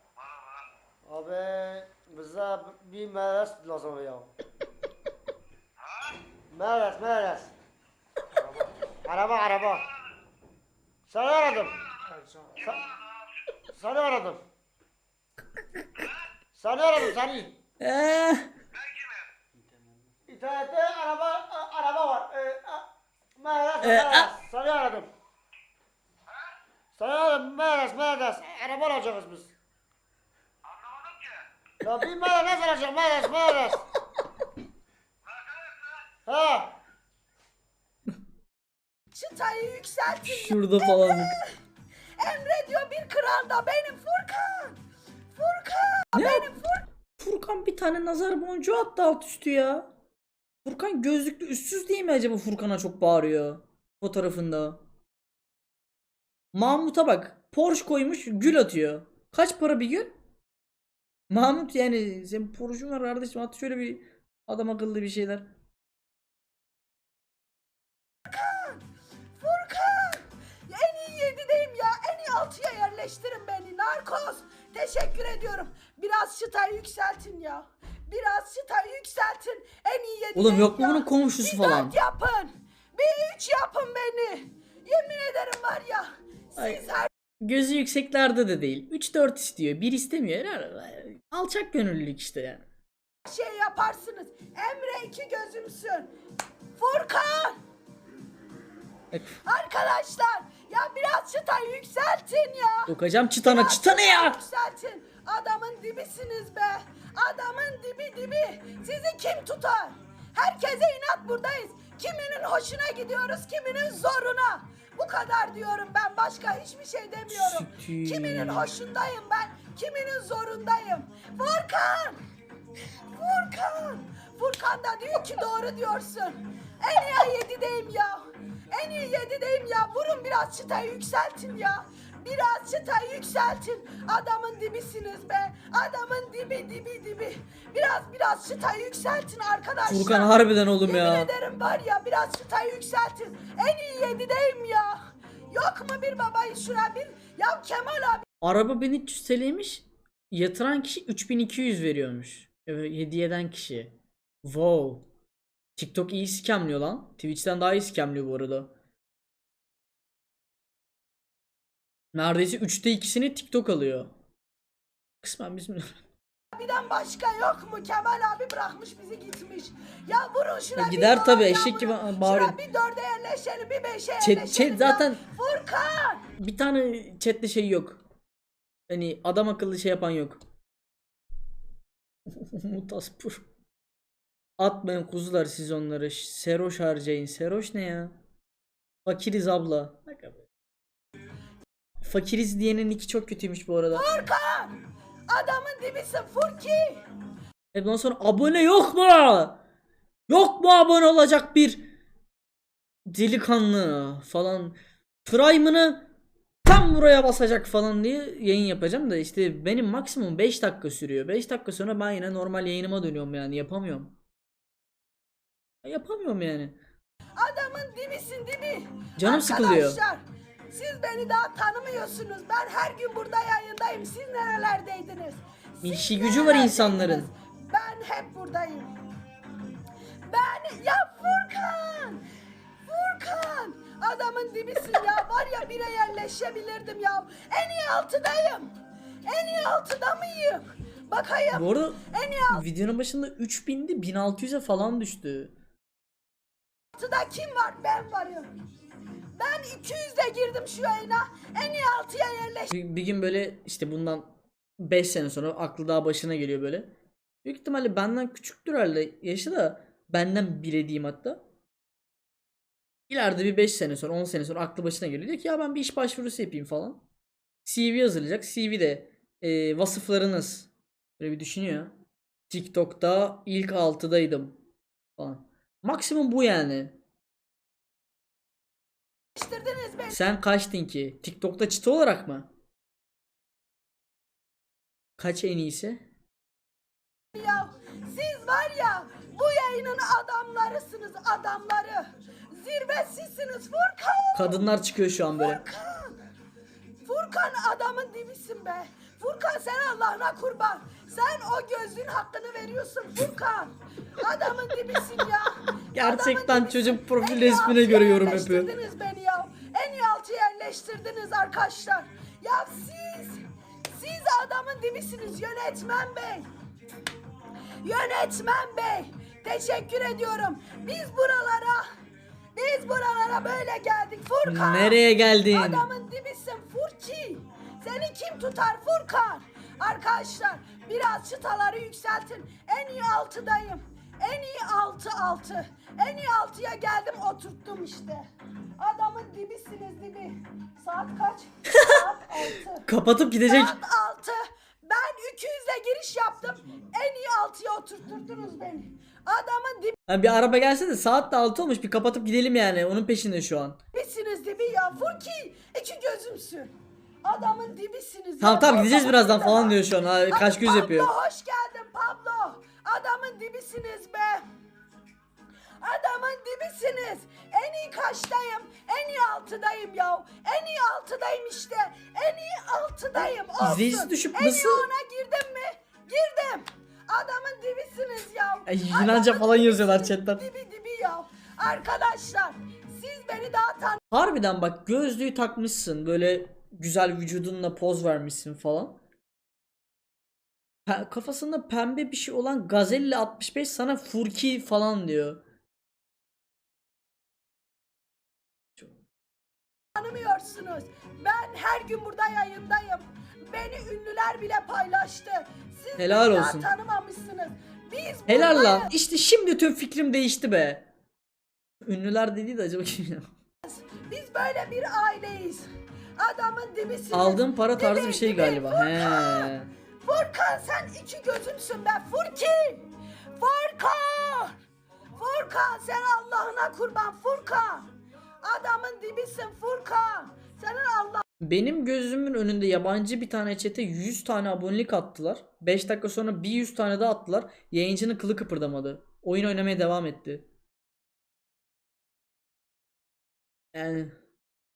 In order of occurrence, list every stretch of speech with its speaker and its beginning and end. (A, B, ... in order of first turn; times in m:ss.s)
0:01.0-0:04.3 A
0:06.5-0:07.5 A
0:09.0-0:09.9 A
0:11.1-0:12.9 A
0:13.7-0:14.4 A
0:16.5-0:17.5 A
0:17.8-0:18.5 B
0:20.3-0:22.8 A
0:23.4-0:25.1 A
0:23.8-0:24.3 B
0:26.9-0:29.5 A
0:31.8-0:33.8 A
0:36.2-0:36.7 A
0:39.1-0:41.5 C
0:40.2-0:41.4 B
0:42.2-0:44.8 C
0:45.3-0:46.8 C
0:46.1-0:46.5 B
0:47.2-0:49.9 B
0:50.6-0:54.8 B
0:56.5-1:00.1 B
1:01.3-1:05.4 B
1:08.2-1:08.8 C
1:09.4-1:27.1 C
1:20.3-1:22.0 B
1:26.6-1:32.6 B
1:33.2-1:36.1 C
1:36.8-1:37.6 C
1:39.4-2:02.2 C
1:42.9-1:44.4 B
1:57.3-1:58.7 B
2:03.2-2:25.0 C
2:19.9-2:21.3 B
2:25.5-2:28.2 C
2:28.4-2:35.0 B
2:35.8-2:38.7 B
2:42.1-2:44.1 B
2:45.2-2:46.0 B
2:46.5-2:56.2 C
2:50.8-2:52.6 B
2:54.2-2:55.2 B
2:56.4-2:58.0 B
2:58.9-3:00.4 B
3:02.3-3:03.4 B
3:04.6-3:08.2 B
3:09.0-3:10.5 B
3:12.0-3:14.0 B
3:13.9-3:14.8 C
3:15.3-3:17.0 C
3:17.7-3:19.6 B
3:20.3-3:21.9 B
3:23.1-3:26.1 B
3:26.6-3:34.1 B
3:35.8-3:36.8 B
3:37.4-3:48.9 C
3:39.2-3:40.0 B
3:45.8-3:47.3 B
3:50.3-3:52.2 C
3:52.9-3:58.7 C
3:59.2-4:02.6 C
4:01.5-4:05.5 B
4:06.9-4:08.5 C
4:09.4-4:12.7 C
4:12.7-4:14.2 B
4:14.8-4:16.9 B
4:17.4-4:21.4 B
4:23.1-4:27.0 B
4:27.6-4:31.9 B
4:32.5-4:34.6 B
4:35.2-4:37.0 B
4:39.3-4:40.2 C
4:40.1-4:42.5 B
4:45.2-4:46.0 B
4:47.3-4:54.6 C
4:54.3-4:55.6 B
4:55.4-4:56.1 C
4:57.0-5:13.4 C
5:05.9-5:08.7 B
5:13.9-5:16.5 C
5:17.8-5:21.8 C
5:22.5-5:25.0 C
5:24.4-5:25.9 B
5:25.5-5:38.2 C
5:38.8-5:42.9 C
5:42.8-5:43.8 B
5:43.4-5:50.0 C
5:50.1-5:53.8 B
5:53.9-5:56.7 C
5:57.2-6:04.4 C
5:58.4-6:01.1 B
6:05.8-6:24.0 C
6:13.6-6:14.9 B
6:18.7-6:20.4 B
6:24.1-6:29.0 B
6:30.9-6:35.4 B
6:39.9-6:48.9 C
6:46.0-6:46.7 B
6:48.3-6:50.8 B
6:51.8-6:53.2 B
6:53.6-6:55.6 C
6:56.2-6:59.5 C
6:57.1-6:59.7 B
7:00.0-7:04.6 C
7:05.2-7:07.9 C
7:08.4-7:11.2 C
7:11.4-7:20.4 B
7:23.7-7:24.1 B